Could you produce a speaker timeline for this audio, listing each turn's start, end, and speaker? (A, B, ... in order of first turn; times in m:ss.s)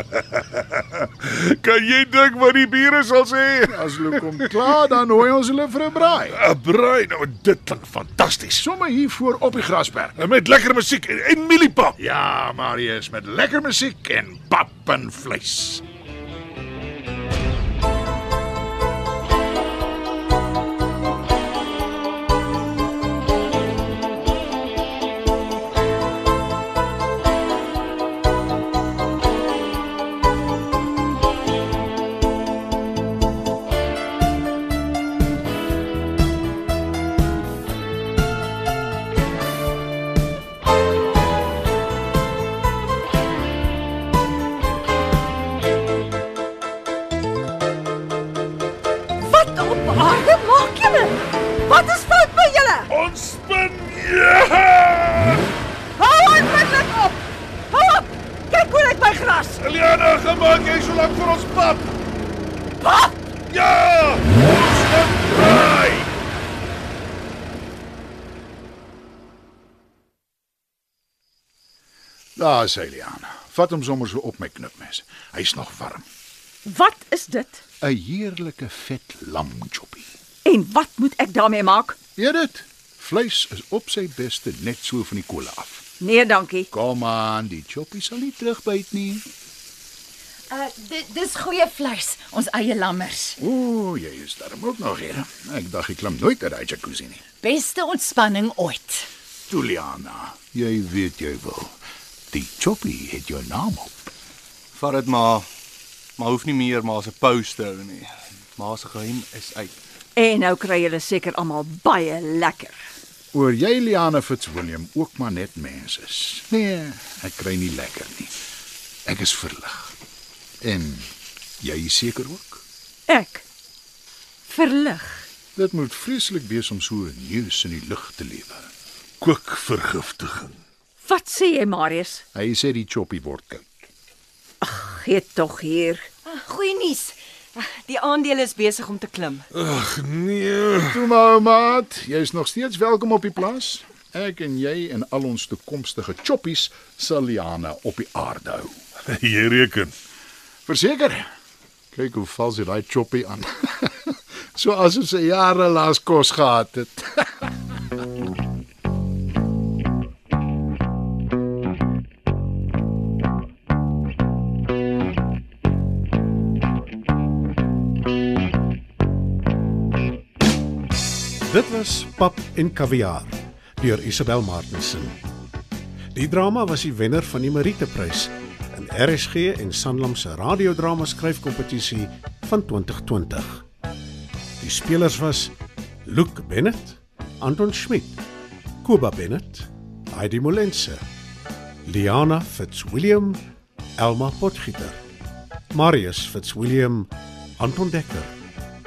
0:00.1-0:04.5 A
0:03.7-0:06.4 B
0:06.3-0:08.6 A
0:08.6-0:10.2 B
0:10.2-0:12.0 A
0:12.0-0:15.8 B
0:49.2-0:52.9 C
0:52.9-0:55.4 A
0:56.0-0:59.6 C
0:59.6-1:02.0 A
1:02.8-1:03.1 C
1:03.5-1:06.1 A
1:12.4-1:16.1 B
1:16.6-1:17.6 C
1:17.8-1:20.1 B
1:20.4-1:22.0 C
1:22.2-1:25.9 B
1:26.0-1:26.7 C
1:26.7-1:29.3 B
1:30.5-1:33.4 D
1:33.4-1:37.2 B
1:37.4-1:39.1 D
1:39.5-1:41.8 B
1:42.3-1:44.0 B
1:44.7-1:45.5 E
1:46.2-1:49.8 E
1:50.2-1:52.8 C
1:53.3-1:58.4 B
1:59.1-2:00.0 B
2:00.6-2:02.6 B
2:03.1-2:03.4 C
2:04.5-2:05.2 C
2:05.6-2:08.7 B
2:09.2-2:10.6 A
2:11.0-2:12.2 C
2:12.3-2:13.6 B
2:14.6-2:16.1 C
2:16.3-2:19.5 F
2:19.5-2:21.0 A
2:20.9-2:28.8 B
2:29.1-2:29.9 A
2:30.7-2:31.3 B
2:31.9-2:37.4 B
2:51.4-2:55.2 G
2:56.1-3:03.6 G
3:04.6-3:05.5 G
3:06.1-3:08.2 G
3:08.8-3:11.0 G
3:11.9-3:13.4 G
3:14.0-3:15.0 G
3:15.7-3:18.3 G